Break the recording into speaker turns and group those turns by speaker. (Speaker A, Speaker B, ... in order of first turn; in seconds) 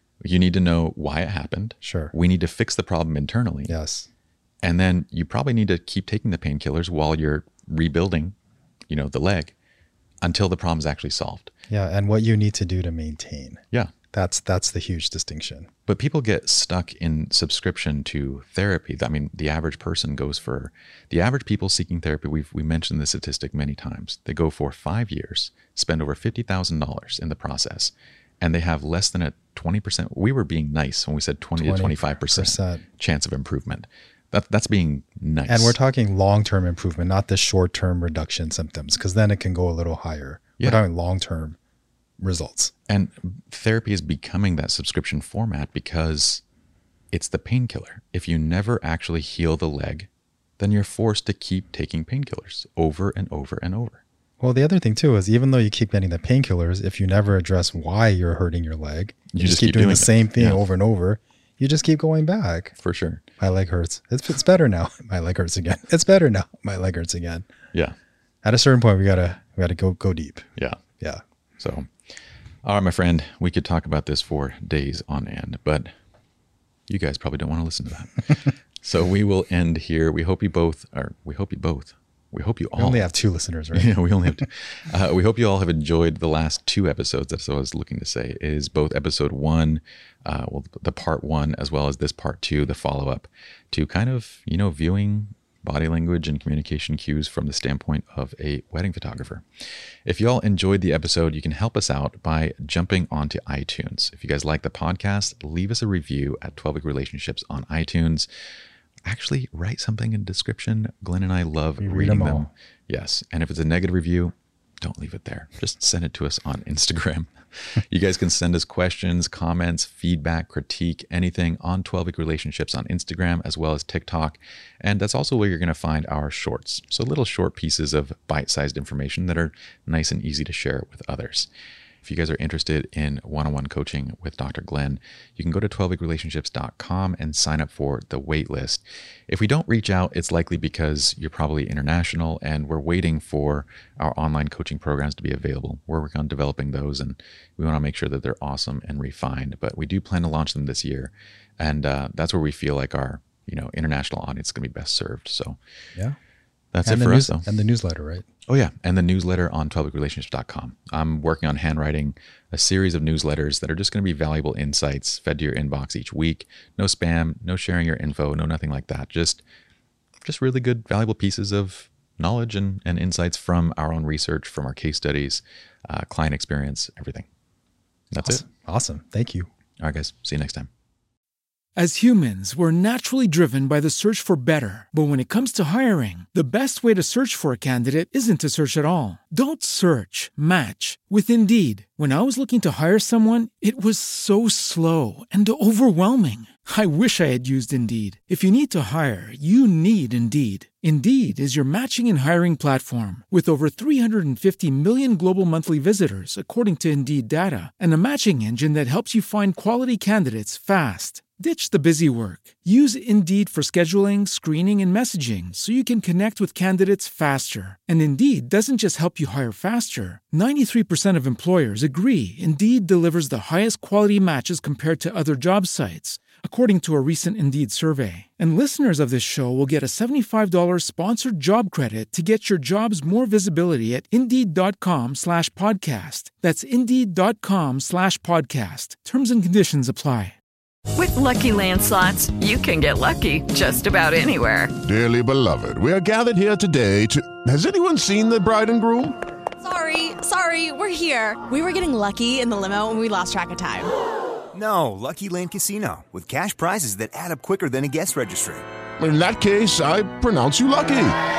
Speaker A: 0.2-3.7, 4.6-8.3, 8.9-9.5, 10.2-11.5, 15.9-35.7, 42.9-46.4, 47.1-54.0, 59.3-60.6, 62.8-63.2, 71.6-71.9, 72.6-75.9, 76.9-83.1, 83.7-99.4, 100.0-108.3, 109.0-131.5, 132.0-155.6, 156.7-157.4, 158.5-169.4, 170.2-177.3, 178.1-178.4, 179.8-180.7
Speaker B: 1.8-2.1, 3.7-4.1, 11.7-13.6, 14.1-15.7, 31.6-32.8, 35.5-41.6, 42.2-42.7, 54.4-62.7, 63.4-67.5, 68.4-70.5, 82.8-84.4, 111.8-112.5, 156.8-158.3, 178.2-179.5
Speaker C: 181.8-240.3
Speaker D: 240.9-244.7
Speaker E: 244.8-249.2, 259.0-261.2
Speaker F: 249.6-253.9
Speaker G: 254.5-258.6